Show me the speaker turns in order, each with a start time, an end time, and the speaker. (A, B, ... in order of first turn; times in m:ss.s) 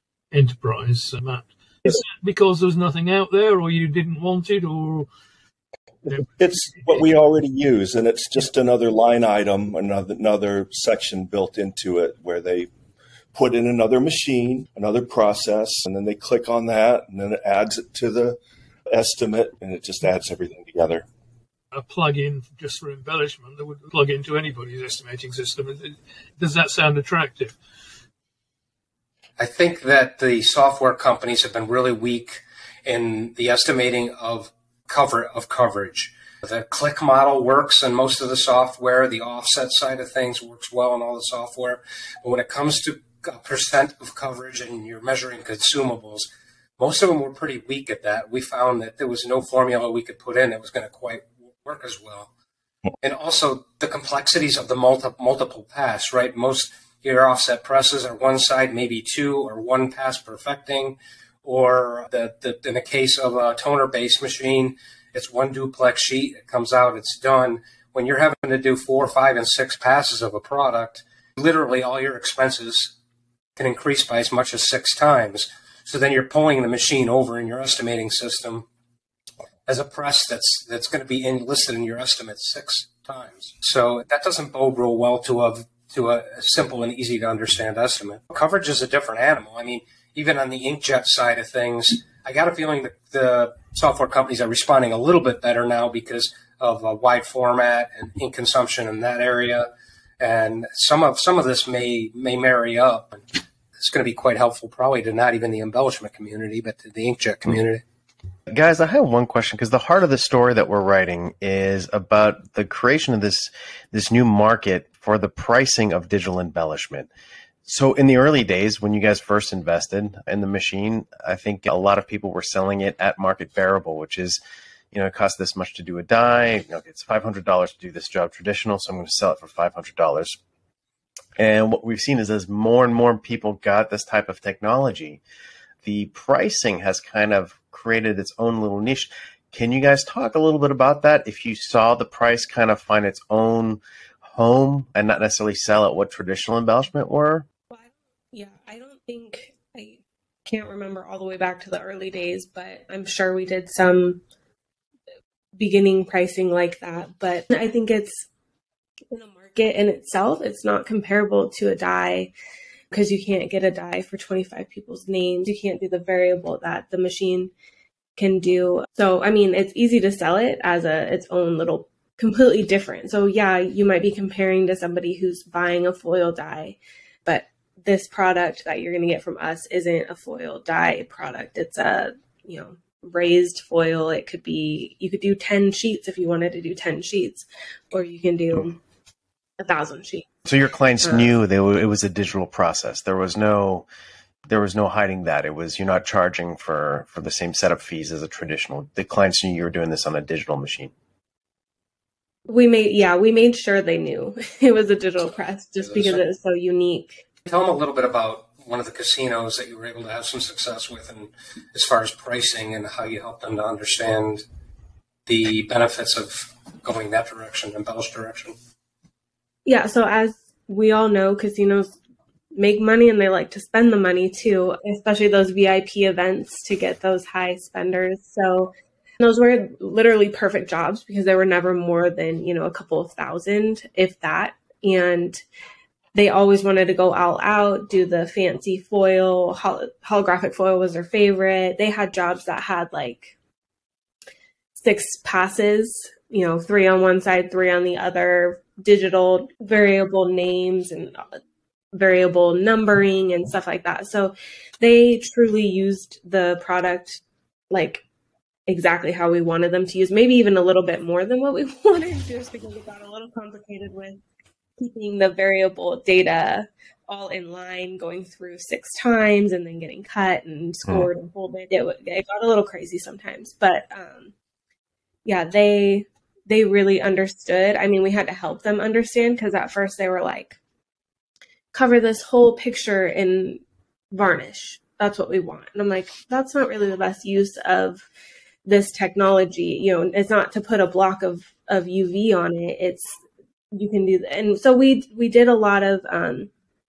0:00.3-0:05.1 A
0:06.2-0:12.7 B
0:13.3-0:21.0 B
0:21.7-0:27.6 A
0:29.4-0:52.3 C
0:53.0-1:12.9 C
1:13.6-1:18.7 C
1:19.7-1:39.7 C
1:40.2-1:43.2 C
1:43.8-1:47.8 C
1:48.5-1:57.1 D
1:57.6-2:04.4 D
2:04.9-2:10.4 D
2:11.4-2:15.2 D
2:15.8-2:27.5 D
2:27.7-2:34.2 E
2:35.6-2:38.3 E
2:39.1-2:42.3 E
2:42.9-2:47.5 E
2:48.2-3:08.8 E
3:09.6-3:10.3 E
3:10.5-3:13.9 D
3:11.0-3:11.3 E
3:14.5-3:20.9 D
3:22.5-3:27.2 E
3:27.5-3:34.4 C
3:35.3-3:38.5 C
3:39.6-3:42.0 E
3:42.6-3:55.4 E
3:56.2-4:03.3 E
4:04.8-4:11.4 E
4:11.9-4:18.0 E
4:18.7-4:24.2 E
4:24.8-4:34.3 E
4:35.2-4:40.6 E
4:41.7-4:43.6 E
4:44.1-4:48.1 E
4:48.7-4:53.2 E
4:53.7-4:56.5 E